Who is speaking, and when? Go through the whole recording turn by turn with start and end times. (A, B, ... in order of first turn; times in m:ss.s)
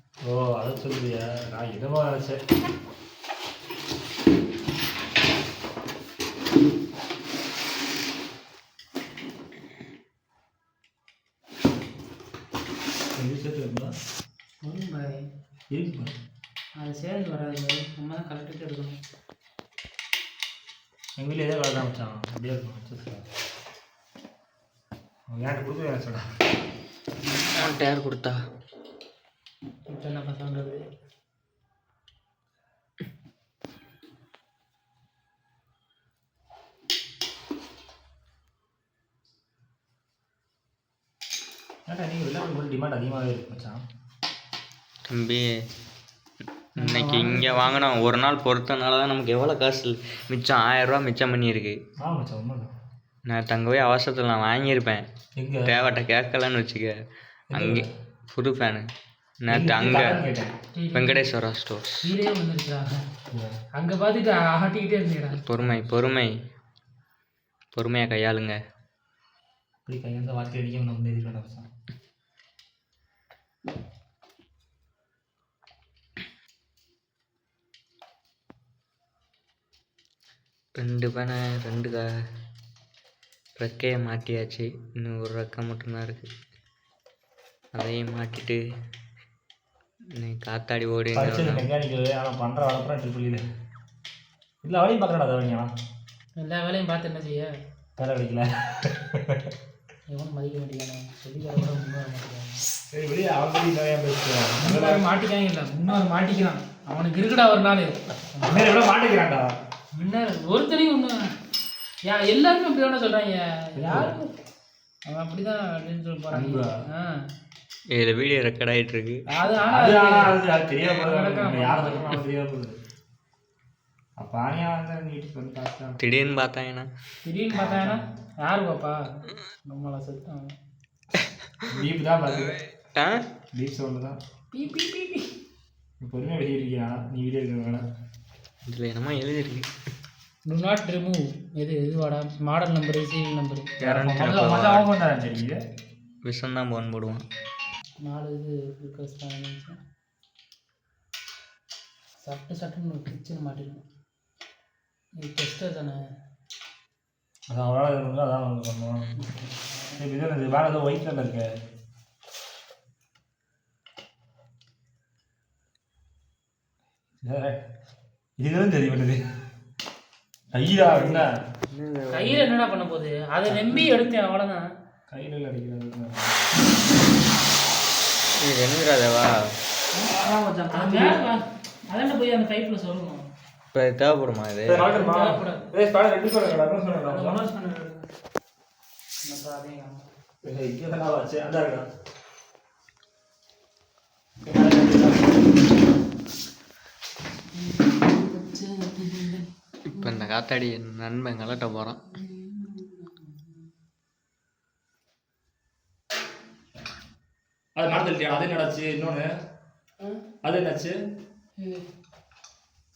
0:00.2-0:02.4 A
0:13.1-0:13.9 A
0:14.6-0:15.3 B
0:15.7-0:16.1 A
0:16.8-0:19.0 B
0:21.2-0:23.2 A
0:25.3-0:26.2 A
0:27.2-0:27.5 B
0:27.6-0:28.4 C
0:29.9-0:30.8 B
0:41.9-0:43.8 A
0:45.1-0:45.4 C
0:46.8-0:51.8 C
0:46.8-0:48.1 B
0:52.0-0:52.7 A
0:53.3-0:55.0 C
0:55.4-0:55.8 A
0:55.6-0:56.9 C
0:57.5-0:57.9 A
0:57.5-0:58.8 C
0:59.4-1:00.2 C
0:59.5-1:00.5 A
1:00.8-1:01.3 B
1:00.9-1:02.1 C
1:02.0-1:03.0 B
1:03.8-1:05.4 B
1:05.4-1:06.3 C
1:07.8-1:08.6 C
1:09.8-1:11.7 A
1:20.8-1:22.0 C
1:23.6-1:26.2 C
1:27.7-1:28.6 C
1:30.2-1:31.7 C
1:31.1-1:33.4 A
1:34.6-1:35.7 A
1:36.4-1:37.5 B
1:38.0-1:39.5 A
1:40.1-1:42.6 B
1:42.9-1:45.0 A
1:44.6-1:48.6 B
1:48.4-1:49.5 A
1:49.9-1:51.2 B
1:52.0-1:54.3 B
1:53.8-1:54.2 A
1:55.0-1:57.0 B
1:56.3-1:56.7 A
1:57.9-1:59.2 C
1:59.3-2:00.3 B
1:59.6-2:02.7 A
2:00.9-2:02.1 B
2:04.2-2:06.0 A
2:06.0-2:06.9 C
2:07.2-2:09.0 B
2:07.6-2:08.1 A
2:09.6-2:10.5 B
2:11.2-2:13.2 C
2:11.7-2:12.6 A
2:13.5-2:14.2 A
2:14.5-2:15.2 B
2:16.0-2:17.8 A
2:18.7-2:19.6 C
2:20.4-2:23.7 B
2:23.8-2:24.9 C
2:23.8-2:25.6 A
2:26.2-2:27.2 C
2:28.0-2:29.8 B
2:32.2-2:33.8 B
2:35.2-2:36.0 B
2:37.5-2:39.1 A
2:39.2-2:40.0 B
2:40.0-2:41.5 A
2:47.2-2:47.6 A
2:48.4-2:49.2 A
2:50.5-2:51.3 A
2:50.8-2:52.4 C
2:52.1-2:54.6 B
2:55.1-2:56.4 A
2:58.4-2:59.3 C
3:00.0-3:01.2 A
3:00.7-3:03.2 B
3:03.7-3:04.9 C
3:04.7-3:07.5 A
3:04.7-3:05.6 B
3:07.0-3:08.0 B
3:09.2-3:10.0 B
3:10.4-3:11.8 A
3:14.4-3:15.4 A
3:17.5-3:20.3 B
3:19.9-3:22.0 C
3:22.1-3:23.7 B
3:27.8-3:29.2 A
3:30.4-3:30.9 A
3:31.6-3:31.8 B